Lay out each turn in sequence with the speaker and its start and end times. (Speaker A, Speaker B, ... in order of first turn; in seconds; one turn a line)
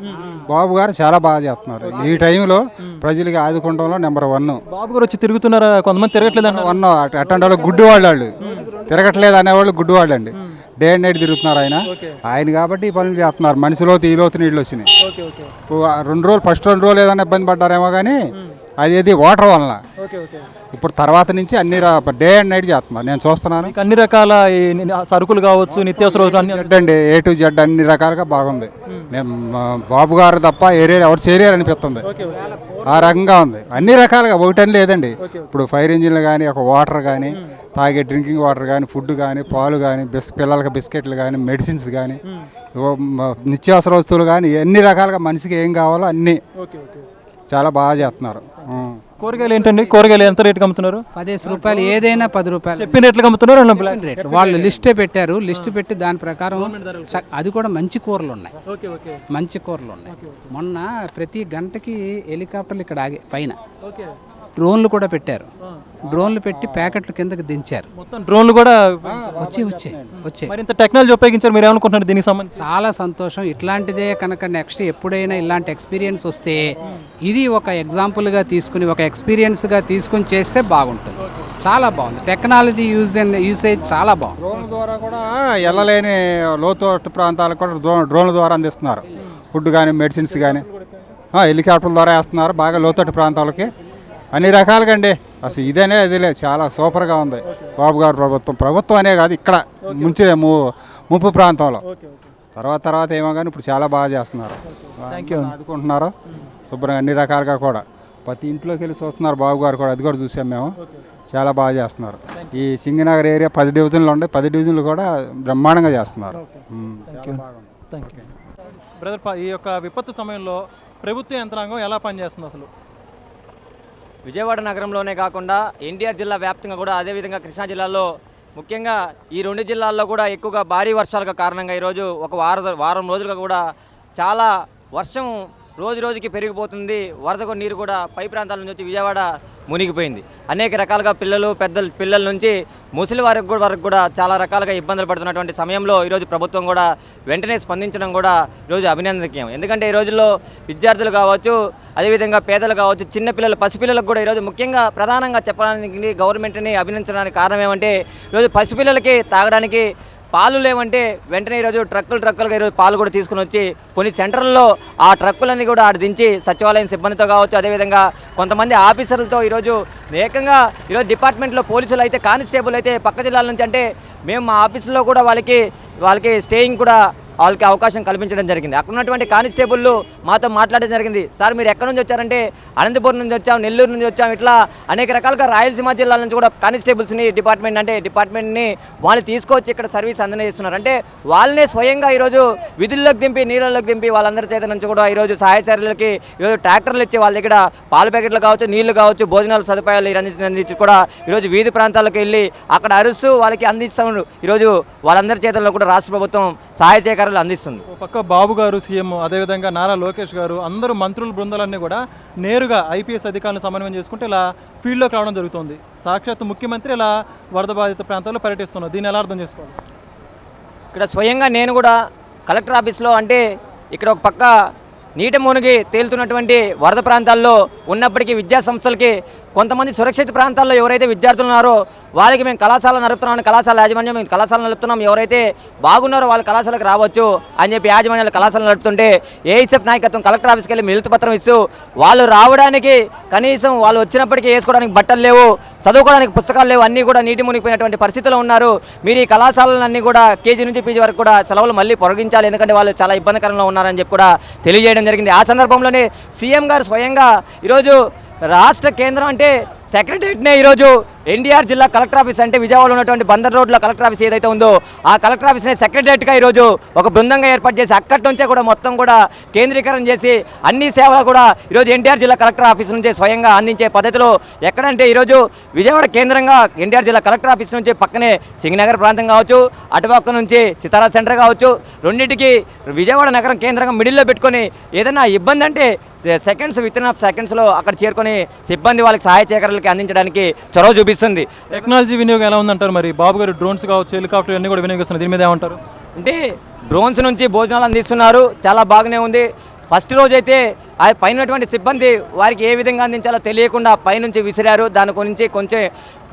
Speaker A: 0.5-4.6
Speaker B: 1.8-2.3
Speaker B: 4.7-6.8
Speaker A: 6.2-14.9
Speaker B: 8.4-8.7
Speaker B: 11.9-12.2
Speaker B: 15.0-15.5
Speaker A: 15.7-18.2
Speaker A: 18.8-19.8
Speaker B: 20.0-20.5
Speaker A: 20.7-23.8
Speaker B: 23.6-26.9
Speaker A: 25.9-32.1
Speaker B: 32.0-33.2
Speaker A: 32.9-42.2
Speaker B: 35.2-35.5
Speaker A: 42.8-46.4
Speaker B: 46.6-47.1
Speaker A: 47.5-49.0
Speaker B: 49.2-52.1
Speaker C: 51.1-53.0
Speaker B: 52.8-54.8
Speaker C: 53.7-58.5
Speaker B: 56.5-57.2
Speaker B: 58.7-59.2
Speaker C: 59.3-63.6
Speaker B: 60.1-60.5
Speaker B: 63.8-64.2
Speaker C: 64.6-65.5
Speaker C: 66.1-67.9
Speaker A: 66.1-67.0
Speaker B: 68.0-69.5
Speaker A: 69.0-70.2
Speaker C: 69.4-70.6
Speaker B: 70.5-72.6
Speaker C: 72.6-76.6
Speaker C: 77.3-84.4
Speaker A: 84.4-90.7
Speaker B: 90.3-91.2
Speaker A: 91.3-93.7
Speaker A: 94.3-100.6
Speaker B: 99.8-100.2
Speaker A: 101.1-101.8
Speaker B: 101.8-102.3
Speaker A: 102.6-106.1
Speaker B: 104.8-105.6
Speaker A: 106.7-110.8
Speaker A: 111.3-118.3
Speaker B: 116.3-118.3
Speaker B: 119.0-122.7
Speaker D: 124.2-133.6
Speaker D: 134.2-207.8
Speaker B: 207.9-219.8
Speaker D: 220.9-221.9
Speaker D: 222.5-223.4
Speaker D: 223.9-224.5
Speaker D: 225.2-258.0
Speaker D: 258.5-291.5
Speaker B: 291.7-295.8
Speaker D: 296.9-305.9